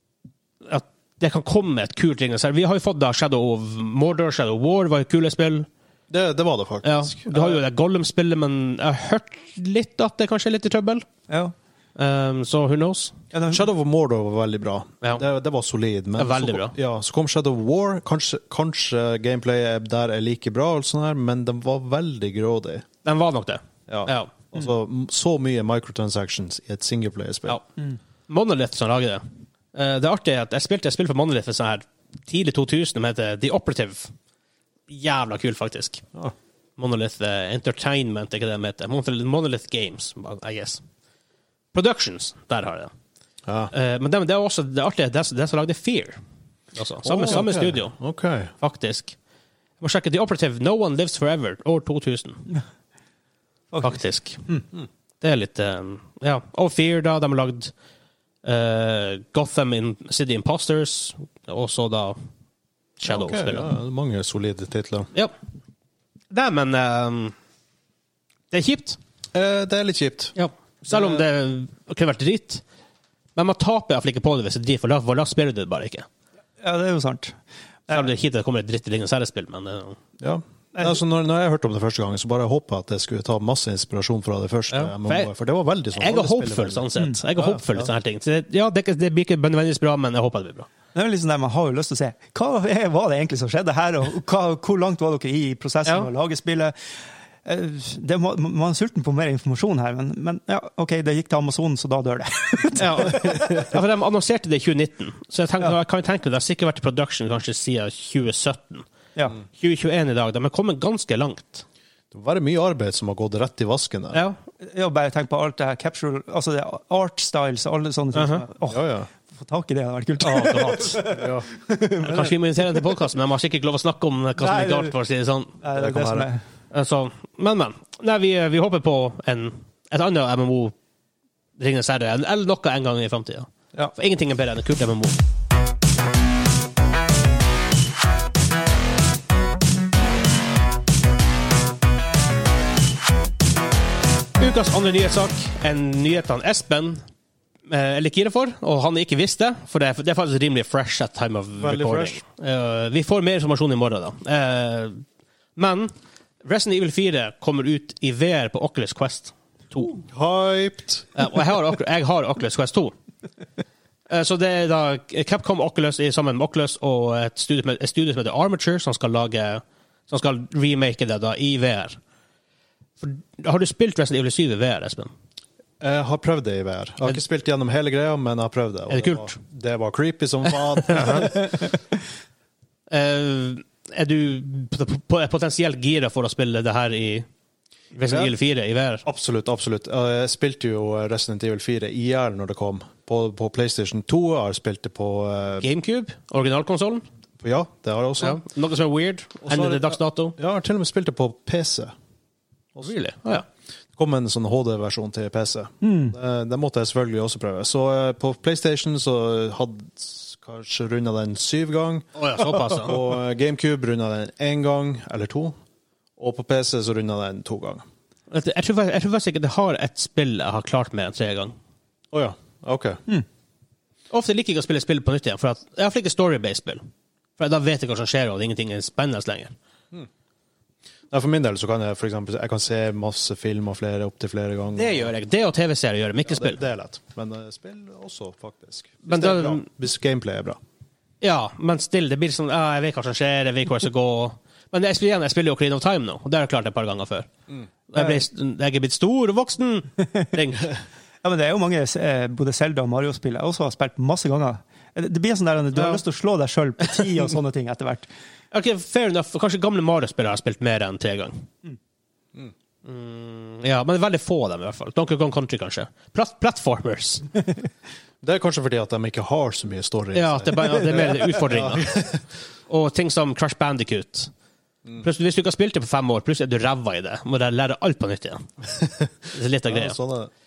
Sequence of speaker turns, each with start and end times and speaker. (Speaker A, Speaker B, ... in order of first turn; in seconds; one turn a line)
Speaker A: 0.6-5.7
Speaker B: 6.1-7.6
Speaker A: 6.8-11.1
Speaker C: 11.3-11.5
Speaker A: 12.0-13.2
Speaker C: 13.3-13.7
Speaker B: 13.5-22.9
Speaker A: 16.2-16.8
Speaker A: 23.1-24.3
Speaker B: 23.9-27.6
Speaker A: 28.3-34.1
Speaker A: 34.9-36.0
Speaker A: 36.8-40.8
Speaker A: 41.7-42.9
Speaker B: 43.5-43.7
Speaker A: 43.7-46.2
Speaker A: 46.8-48.0
Speaker B: 47.0-48.5
Speaker A: 48.6-49.1
Speaker A: 49.8-52.5
Speaker A: 53.8-54.5
Speaker A: 55.2-57.7
Speaker A: 58.4-62.2
Speaker A: 63.0-63.7
Speaker B: 63.0-65.1
Speaker A: 66.3-67.3
Speaker A: 68.5-69.0
Speaker B: 69.3-70.4
Speaker A: 70.4-72.6
Speaker B: 70.9-71.2
Speaker A: 73.4-76.1
Speaker C: 76.6-77.4
Speaker A: 77.9-80.0
Speaker B: 80.2-87.9
Speaker A: 84.7-85.3
Speaker A: 86.0-90.7
Speaker C: 90.9-96.8
Speaker C: 97.5-103.7
Speaker A: 102.8-108.9
Speaker A: 109.5-111.7
Speaker B: 112.1-114.2
Speaker A: 114.1-114.4
Speaker C: 114.6-122.8
Speaker A: 118.1-118.5
Speaker B: 118.7-119.1
Speaker A: 120.2-121.1
Speaker B: 121.1-121.5
Speaker A: 122.0-125.6
Speaker C: 124.4-125.0
Speaker C: 125.6-126.4
Speaker B: 125.8-126.3
Speaker A: 126.7-130.8
Speaker A: 131.6-135.2
Speaker A: 144.4-147.0
Speaker A: 147.7-155.0
Speaker B: 151.6-152.2
Speaker A: 155.6-160.0
Speaker B: 160.0-161.2
Speaker A: 161.2-162.9
Speaker A: 164.1-172.0
Speaker A: 173.0-175.1
Speaker B: 175.8-181.7
Speaker A: 178.9-179.4
Speaker A: 180.8-181.3
Speaker A: 182.9-187.3
Speaker A: 187.9-189.0
Speaker B: 188.0-188.3
Speaker B: 189.1-195.7
Speaker A: 195.6-197.1
Speaker B: 197.4-198.4
Speaker A: 198.2-200.4
Speaker B: 199.4-201.9
Speaker A: 202.8-203.5
Speaker B: 204.0-215.6
Speaker C: 205.8-206.2
Speaker A: 212.2-213.0
Speaker B: 216.2-217.8
Speaker A: 218.3-221.6
Speaker B: 222.1-223.0
Speaker A: 224.1-226.9
Speaker A: 227.4-229.5
Speaker B: 231.1-235.1
Speaker A: 234.8-236.6
Speaker B: 236.2-240.6
Speaker A: 239.1-239.7
Speaker A: 241.2-247.3
Speaker A: 247.9-250.8
Speaker C: 248.0-248.2
Speaker C: 251.2-258.1
Speaker A: 255.8-256.0
Speaker A: 258.5-261.5
Speaker A: 262.9-267.3
Speaker B: 268.2-272.2
Speaker A: 270.1-272.0
Speaker A: 272.7-274.3
Speaker A: 275.0-280.0
Speaker B: 279.7-280.3